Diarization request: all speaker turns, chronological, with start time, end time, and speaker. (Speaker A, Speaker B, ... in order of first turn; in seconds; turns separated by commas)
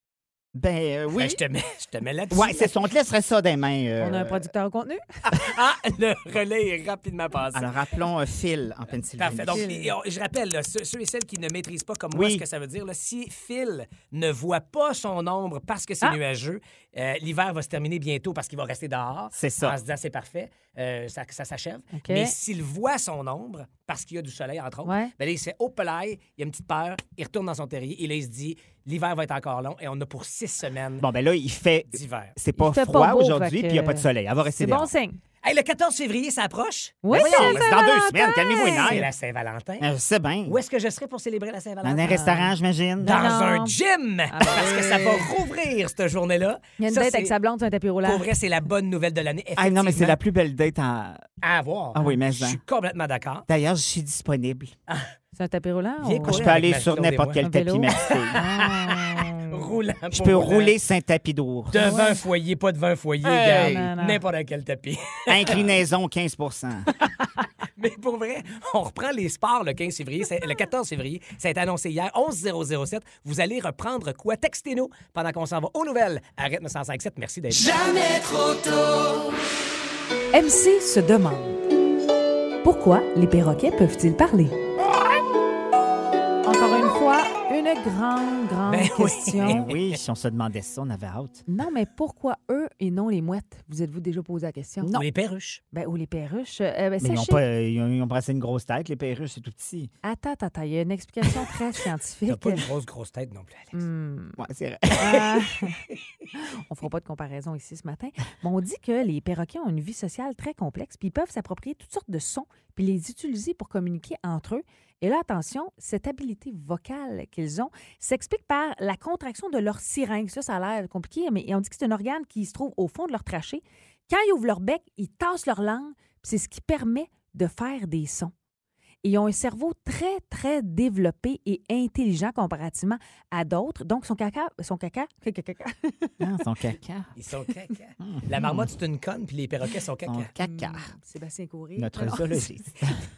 Speaker A: 0.5-1.4, Speaker B: 1.1-2.7, Speaker A: 2.3-4.5, Speaker C: 4.0-5.0, Speaker B: 5.3-7.7, Speaker A: 7.5-9.6, Speaker B: 9.2-31.1, Speaker C: 9.5-9.9, Speaker A: 12.1-12.4, Speaker A: 19.3-19.8, Speaker C: 21.9-22.3, Speaker C: 24.8-25.1, Speaker A: 31.0-34.9, Speaker B: 31.9-32.3, Speaker C: 32.6-35.2, Speaker B: 35.4-37.6, Speaker C: 37.0-39.0, Speaker A: 37.1-39.1, Speaker B: 38.6-39.9, Speaker A: 39.8-40.6, Speaker B: 40.4-42.4, Speaker A: 41.8-43.2, Speaker C: 42.0-42.5, Speaker C: 43.0-43.8, Speaker B: 43.1-47.3, Speaker C: 44.3-45.3, Speaker C: 46.8-48.2, Speaker B: 48.0-50.2, Speaker A: 49.5-51.2, Speaker B: 51.4-53.5, Speaker A: 51.9-52.6, Speaker A: 53.5-54.7, Speaker C: 55.4-56.5, Speaker B: 56.0-57.4, Speaker A: 56.2-58.4, Speaker C: 57.4-59.7, Speaker B: 58.0-60.8, Speaker A: 60.1-62.0, Speaker B: 61.7-65.7, Speaker C: 61.8-62.2, Speaker A: 63.2-63.9, Speaker C: 63.4-64.2, Speaker A: 65.3-66.9, Speaker B: 67.8-78.4, Speaker C: 80.3-81.6, Speaker C: 82.6-84.6, Speaker C: 86.4-89.7, Speaker B: 88.7-89.9, Speaker A: 89.4-91.4, Speaker C: 91.5-94.9, Speaker B: 94.9-95.6, Speaker C: 95.7-97.4, Speaker A: 97.0-99.9, Speaker C: 100.0-102.6, Speaker B: 102.3-103.8, Speaker C: 103.7-104.4, Speaker A: 104.4-105.4, Speaker C: 105.0-105.8, Speaker C: 106.3-128.3, Speaker C: 129.0-136.2, Speaker A: 136.2-137.1, Speaker B: 137.2-140.3, Speaker A: 138.0-138.7, Speaker A: 140.1-140.9, Speaker C: 140.4-142.5, Speaker A: 141.8-143.0